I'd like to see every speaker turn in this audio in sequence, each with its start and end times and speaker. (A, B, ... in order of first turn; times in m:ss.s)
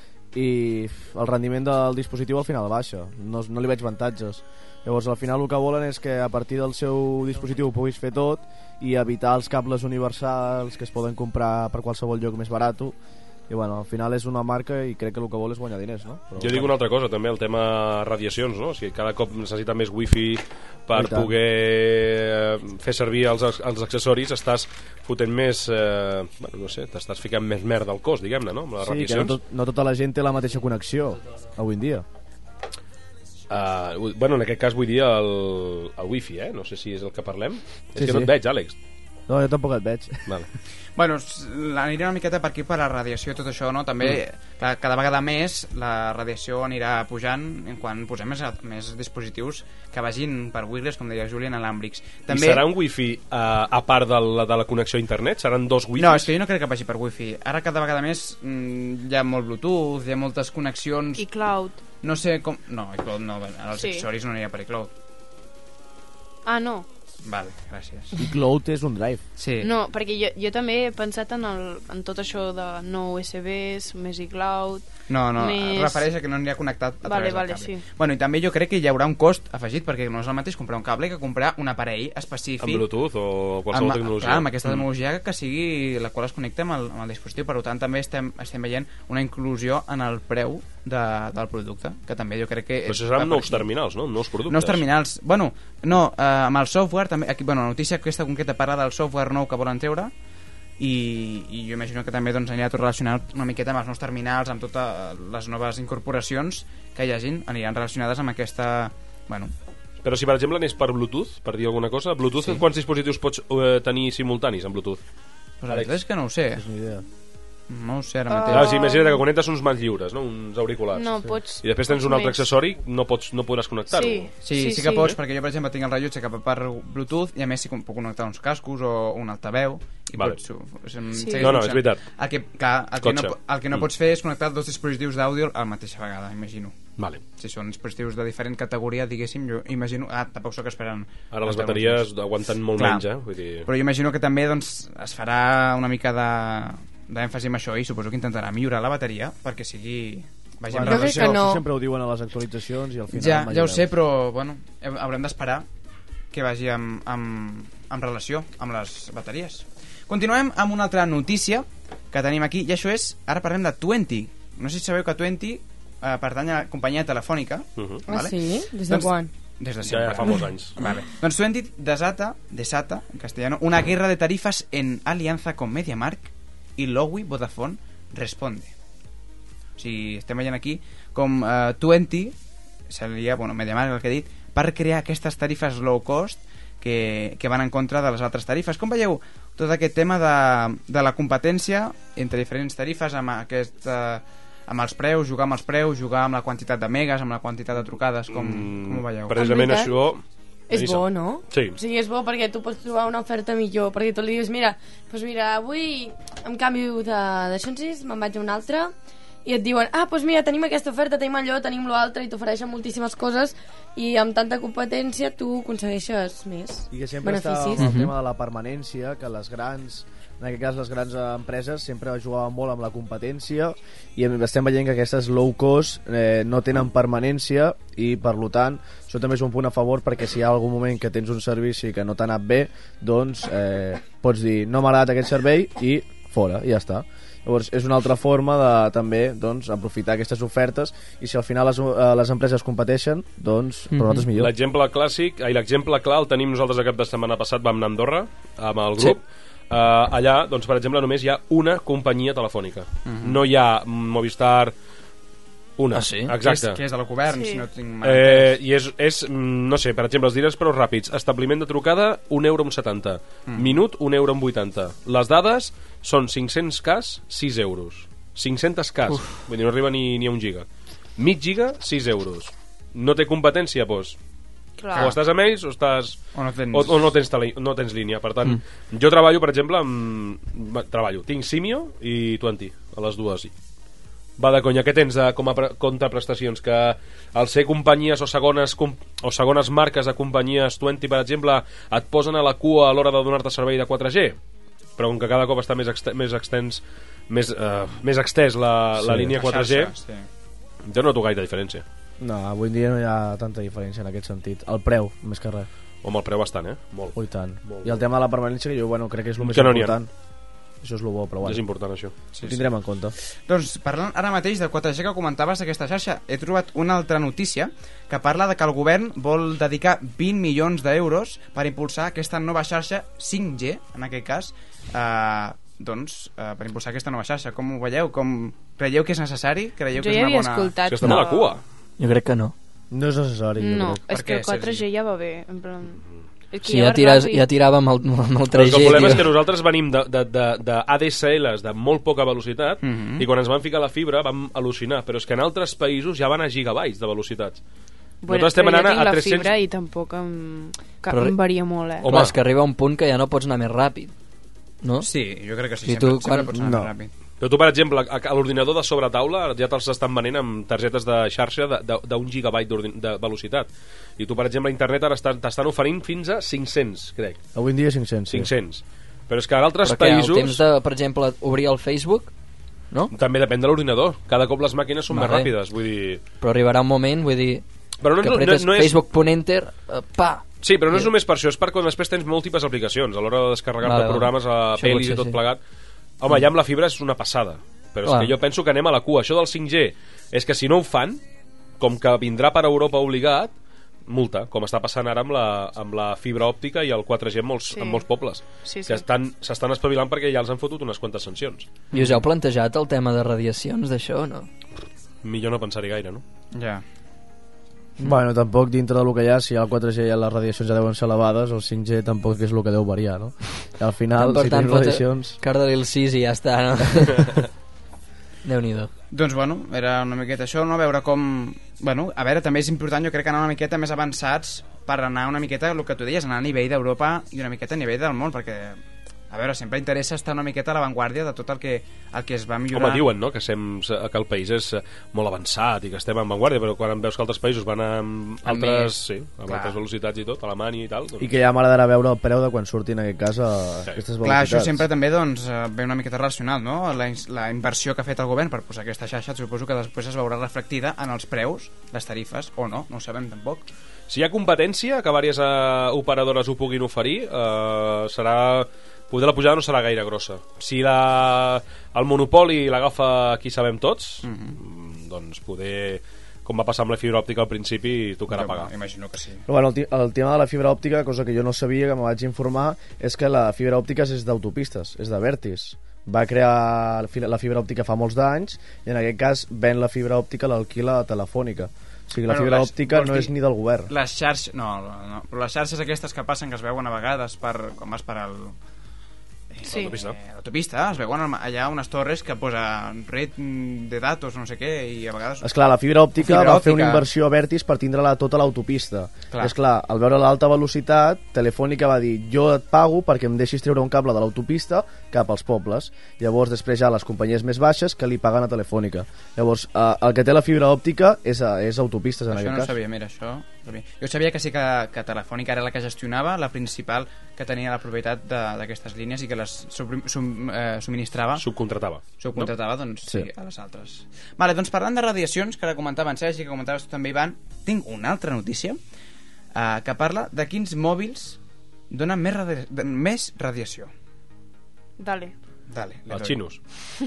0:00.3-0:13.0 A
0:13.5-0:16.7 A
0:16.4-0:29.4 B
0:20.9-0:21.3 A
0:28.8-0:32.0 A
0:33.5-0:38.7 B
0:38.0-0:38.3 A
0:39.3-0:40.2 A
0:41.0-0:52.6 C
0:52.3-0:56.3 B
0:56.0-1:01.2 C
1:01.2-1:01.8 D
1:02.0-1:04.9 C
1:03.8-1:04.0 D
1:06.4-1:06.9 D
1:07.2-1:08.1 C
1:08.2-1:09.2 A
1:09.4-1:09.7 C
1:09.6-1:16.1 D
1:15.1-1:22.8 C
1:17.0-1:17.8 D
1:22.6-1:24.8 B
1:23.7-1:33.7 C
1:32.8-1:34.8 B
1:34.5-1:40.1 C
1:40.8-1:49.5 C
1:50.0-1:55.0 B
1:55.6-1:56.6 C
1:56.6-1:57.0 A
1:57.7-1:58.7 C
1:58.3-1:59.2 D
1:58.5-2:04.3 B
2:00.9-2:02.4 D
2:03.9-2:05.1 D
2:04.4-2:16.8 C
2:11.2-2:11.5 D
2:11.4-2:12.0 B
2:13.0-2:13.8 B
2:17.4-2:22.1 C
2:21.3-2:23.7 B
2:22.7-2:23.1 C
2:23.6-2:31.4 C
2:30.7-2:33.9 A
2:30.8-2:31.6 E
2:33.1-2:35.7 C
2:36.3-2:48.4 C
2:47.8-2:48.0 B
2:48.1-2:49.3 E
2:48.9-2:58.7 C
2:49.8-2:50.7 B
2:59.8-3:02.3 C
3:02.9-3:19.4 C
3:18.3-3:21.8 B
3:19.4-3:19.9 E
3:20.7-3:28.9 E
3:29.4-3:37.9 E
3:36.9-4:04.5 A
3:37.8-3:38.1 F
4:03.9-4:04.3 F
4:04.3-4:14.7 B
4:13.0-4:13.4 C
4:15.8-4:16.8 B
4:15.9-4:16.3 F
4:16.4-4:18.6 C
4:17.3-4:17.6 D
4:18.0-4:30.6 B
4:23.5-4:23.8 C
4:29.1-4:29.4 F
4:31.2-4:34.2 B
4:34.8-4:35.1 D
4:34.9-4:36.2 B
4:36.3-4:37.0 C
4:36.7-4:43.5 B
4:44.4-4:54.4 B
4:55.0-4:59.9 B
4:59.0-4:59.3 A
4:59.4-5:00.2 C
5:00.8-5:01.8 B
5:02.2-5:05.7 A
5:06.0-5:08.0 B
5:07.1-5:10.1 A
5:09.4-5:10.0 B
5:10.8-5:11.6 A
5:11.4-5:12.1 B
5:12.3-5:12.6 C
5:12.4-5:13.1 A
5:13.5-5:30.7 C
5:29.9-5:31.5 D
5:30.9-5:31.6 B
5:32.0-5:32.5 F
5:32.9-5:34.0 A
5:33.6-5:37.4 D
5:34.1-5:34.8 C
5:36.6-5:39.3 F
5:38.5-5:47.6 B
5:42.8-5:43.3 C
5:48.2-5:52.1 D
5:48.3-5:49.5 B
5:51.1-5:54.1 F
5:52.0-5:52.4 B
5:54.8-5:55.1 F
5:55.0-5:57.1 C
5:55.8-5:56.5 F
5:56.5-5:56.9 A
5:57.4-6:07.4 B
6:07.5-6:08.5 A
6:08.3-6:10.6 B
6:09.8-6:12.3 F
6:13.1-6:16.2 B
6:15.1-6:15.5 F
6:16.4-6:17.6 F
6:18.0-6:19.0 B
6:18.2-6:21.1 F
6:20.6-6:25.6 B
6:23.8-6:25.4 F
6:26.2-6:31.2 B
6:28.0-6:28.3 F
6:31.8-6:33.5 B
6:34.1-6:41.7 B
6:37.7-6:38.0 D
6:38.6-6:39.0 D
6:41.9-6:44.5 F
6:45.2-6:46.2 B
6:46.5-6:46.8 C
6:48.0-6:55.4 A
6:54.2-6:57.4 F
6:58.4-6:58.9 F
6:59.1-7:08.8 C
7:09.3-7:13.1 C
7:12.7-7:21.3 B
7:18.4-7:18.9 C
7:19.4-7:19.8 C
7:21.2-7:24.8 A
7:24.2-7:33.6 C
7:34.1-7:48.7 B
7:44.2-7:44.6 C
7:48.3-7:49.4 C
7:49.5-8:03.9 A
8:02.3-8:03.3 C
8:03.9-8:08.6 C
8:09.5-8:15.5 C
8:09.7-8:10.2 B
8:15.4-8:32.7 A
8:16.2-8:17.0 C
8:32.3-8:41.4 C
8:41.4-8:42.5 B
8:42.2-8:48.8 C
8:49.5-8:51.4 C
8:51.9-8:53.9 C
8:55.0-8:55.3 D
8:55.7-8:56.4 C
8:56.1-8:56.6 B